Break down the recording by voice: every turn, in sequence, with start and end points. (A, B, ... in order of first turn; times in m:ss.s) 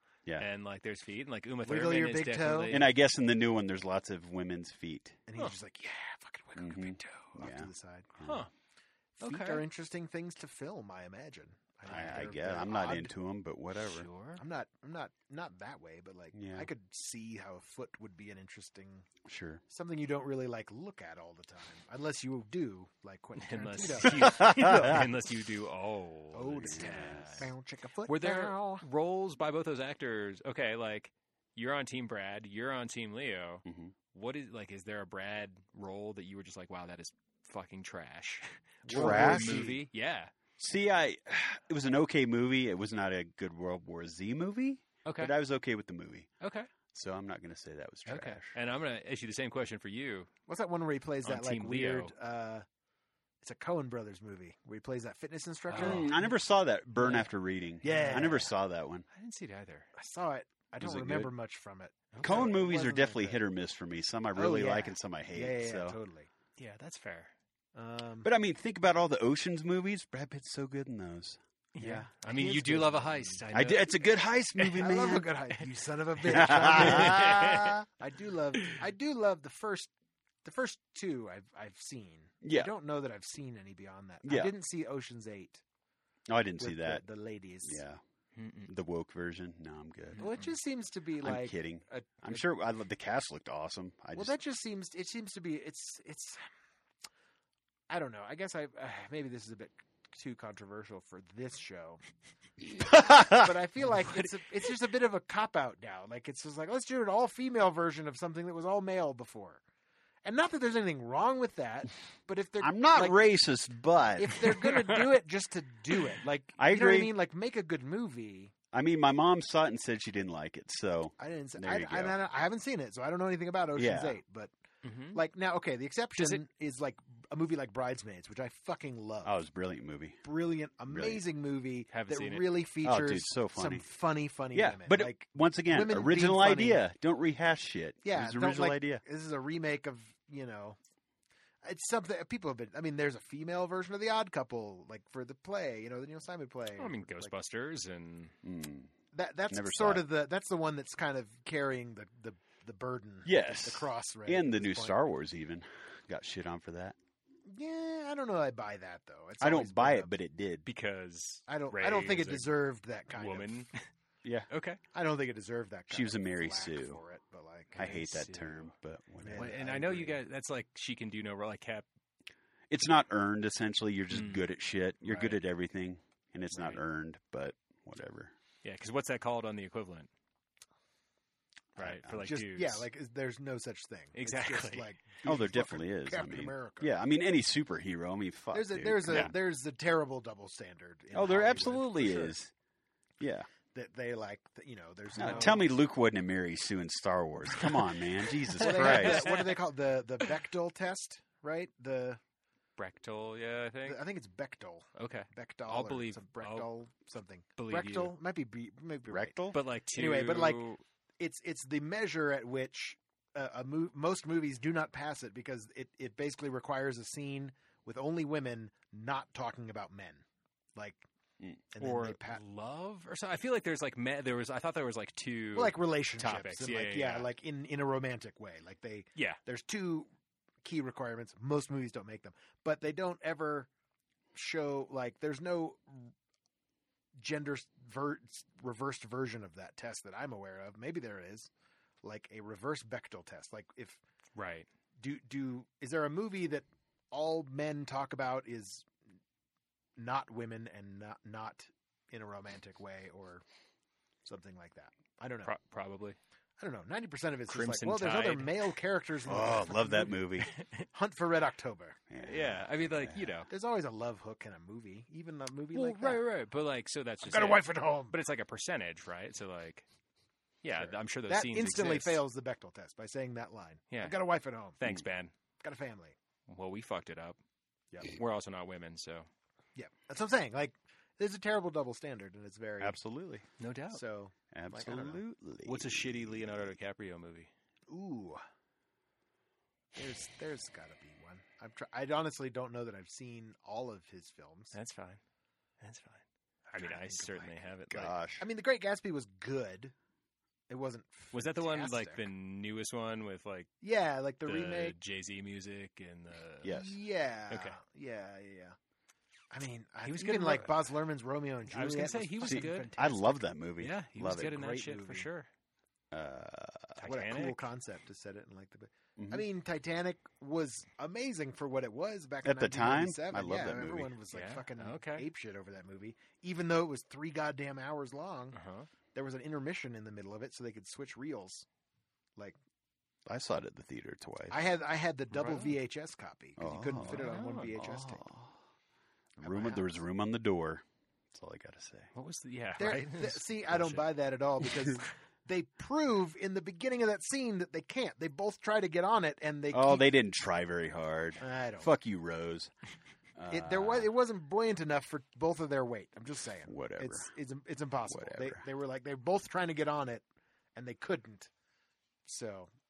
0:00.4-0:02.9 A
0:01.6-0:02.8 B
0:02.7-0:05.2 C
0:05.3-0:08.1 B
0:06.6-0:08.4 C
0:08.2-0:08.5 A
0:09.2-0:13.1 B
0:09.2-0:09.6 A
0:11.9-0:14.1 C
0:13.9-0:14.4 A
0:14.4-0:19.1 B
0:16.3-0:16.7 C
0:19.2-0:19.6 C
0:19.7-0:25.1 B
0:23.4-0:27.5 A
0:24.1-0:25.0 C
0:26.3-0:28.8 B
0:26.6-0:27.5 C
0:28.0-0:40.3 A
0:33.6-0:33.9 C
0:38.9-0:39.8 C
0:38.9-0:39.8 B
0:40.6-0:46.3 C
0:45.0-0:45.4 A
0:46.4-0:46.7 A
0:46.9-0:48.5 C
0:48.0-0:50.3 A
0:50.5-0:52.6 B
0:51.2-0:52.1 A
0:53.4-0:56.1 B
0:55.7-0:56.2 A
0:55.8-0:59.0 C
0:57.0-0:57.3 A
0:57.8-0:58.5 B
0:57.8-0:58.3 A
0:59.1-0:59.9 A
0:59.9-1:03.4 B
1:00.8-1:01.3 C
1:02.1-1:02.5 A
1:02.2-1:06.0 C
1:04.3-1:06.3 B
1:06.6-1:07.3 A
1:07.7-1:08.3 B
1:08.2-1:12.1 C
1:11.7-1:14.0 A
1:12.2-1:13.4 B
1:13.5-1:15.3 C
1:14.6-1:15.6 A
1:14.8-1:19.9 B
1:16.2-1:17.8 C
1:16.6-1:17.8 A
1:20.4-1:25.6 B
1:22.4-1:22.7 C
1:24.2-1:24.5 C
1:26.3-1:27.0 C
1:26.6-1:27.8 B
1:27.6-1:28.0 C
1:28.3-1:28.7 A
1:28.6-1:30.3 C
1:30.2-1:32.4 B
1:31.2-1:34.3 C
1:34.1-1:36.4 B
1:37.9-1:42.0 B
1:42.7-1:43.5 C
1:42.8-1:49.6 B
1:50.2-1:53.2 B
1:52.6-1:54.4 C
1:54.2-1:58.5 B
1:54.6-1:55.0 A
1:56.6-1:57.1 C
1:58.7-2:02.2 C
2:01.2-2:04.5 B
2:03.7-2:04.2 C
2:04.8-2:05.2 A
2:05.1-2:09.4 B
2:09.2-2:10.2 C
2:10.2-2:16.8 B
2:10.9-2:11.2 C
2:11.9-2:12.5 A
2:12.8-2:13.8 C
2:14.5-2:19.0 C
2:18.0-2:20.8 B
2:21.6-2:27.3 B
2:26.8-2:28.3 A
2:28.4-2:28.9 C
2:29.1-2:35.0 B
2:29.5-2:30.1 C
2:33.2-2:37.0 C
2:37.4-2:40.1 B
2:39.4-2:40.7 C
2:40.6-2:42.5 A
2:41.5-2:43.6 B
2:43.1-2:43.8 A
2:44.2-2:44.5 C
2:44.5-2:44.8 A
2:44.9-2:47.8 B
2:45.9-2:47.0 C
2:47.7-2:48.7 A
2:47.8-2:49.6 C
2:49.2-2:50.2 B
2:49.3-2:51.8 A
2:52.7-2:58.3 C
2:54.1-2:54.4 A
2:55.1-2:55.4 A
2:56.5-2:56.8 A
2:58.6-3:00.1 A
3:01.8-3:02.8 A
3:01.8-3:02.3 C
3:02.2-3:06.9 B
3:04.1-3:04.9 A
3:05.2-3:09.3 C
3:08.5-3:12.3 B
3:11.1-3:12.5 C
3:13.2-3:13.5 C
3:13.7-3:15.7 B
3:15.2-3:19.4 C
3:15.2-3:15.5 A
3:18.5-3:22.2 B
3:18.6-3:19.5 A
3:22.8-3:24.0 A
3:23.8-3:29.4 B
3:25.0-3:26.7 A
3:27.6-3:28.1 A
3:29.1-3:29.6 C
3:29.5-3:30.8 A
3:29.9-3:40.2 B
3:40.8-3:41.0 B
3:41.7-3:42.4 B
3:41.8-3:47.3 A
3:45.5-3:50.1 B
3:50.6-3:53.7 B
3:54.3-3:56.1 B
3:57.2-4:01.5 B
4:02.0-4:04.0 B
4:04.3-4:04.7 A
4:05.0-4:08.9 B
4:10.0-4:13.4 B
4:14.2-4:15.5 B
4:15.4-4:16.2 A
4:16.6-4:20.2 B
4:17.5-4:18.7 A
4:19.2-4:20.5 C
4:20.4-4:20.8 A
4:20.9-4:22.0 B
4:22.1-4:23.2 C
4:22.2-4:23.5 A
4:23.5-4:26.2 B
4:25.7-4:29.8 A
4:27.2-4:28.1 B
4:30.6-4:32.2 A
4:31.3-4:34.8 B
4:33.9-4:34.2 A
4:34.8-4:35.3 A
4:35.6-4:36.2 B
4:36.5-4:37.4 A
4:38.0-4:39.3 A
4:39.8-4:43.0 B
4:42.8-4:43.5 C
4:43.6-4:44.0 A
4:43.9-4:45.2 B
4:44.5-4:46.7 C
4:45.6-4:47.5 A
4:47.9-4:48.4 B
4:49.9-4:54.7 B
4:54.7-4:55.2 A
4:55.8-4:56.2 A
4:56.7-4:57.6 B
4:56.7-4:58.2 A
4:57.9-4:58.4 C
4:58.4-4:59.9 B
5:00.7-5:02.3 B
5:01.3-5:03.7 A
5:03.8-5:05.0 B
5:04.4-5:06.8 A
5:06.6-5:07.0 C
5:06.7-5:08.8 B
5:07.5-5:07.8 A
5:09.5-5:13.4 B
5:10.0-5:10.9 A
5:11.7-5:12.9 A
5:12.4-5:14.6 C
5:13.8-5:15.5 A
5:14.3-5:15.3 B
5:16.1-5:17.0 C
5:17.0-5:17.6 A
5:17.0-5:28.6 B
5:19.2-5:19.4 C
5:22.4-5:24.1 C
5:24.3-5:25.3 A
5:28.5-5:28.9 A
5:29.1-5:31.6 B
5:33.2-5:34.6 C
5:34.5-5:38.2 B
5:35.4-5:35.7 A
5:36.6-5:38.5 C
5:37.1-5:37.9 A
5:39.4-5:42.1 C
5:39.4-5:40.0 B
5:42.1-5:44.0 A
5:42.8-5:50.1 B
5:49.7-5:52.7 C
5:51.4-5:51.9 B
5:53.4-5:54.1 C
5:53.5-6:00.2 B
5:56.7-5:57.3 C
5:58.1-5:58.6 C
6:00.8-6:01.5 B
6:02.2-6:02.7 B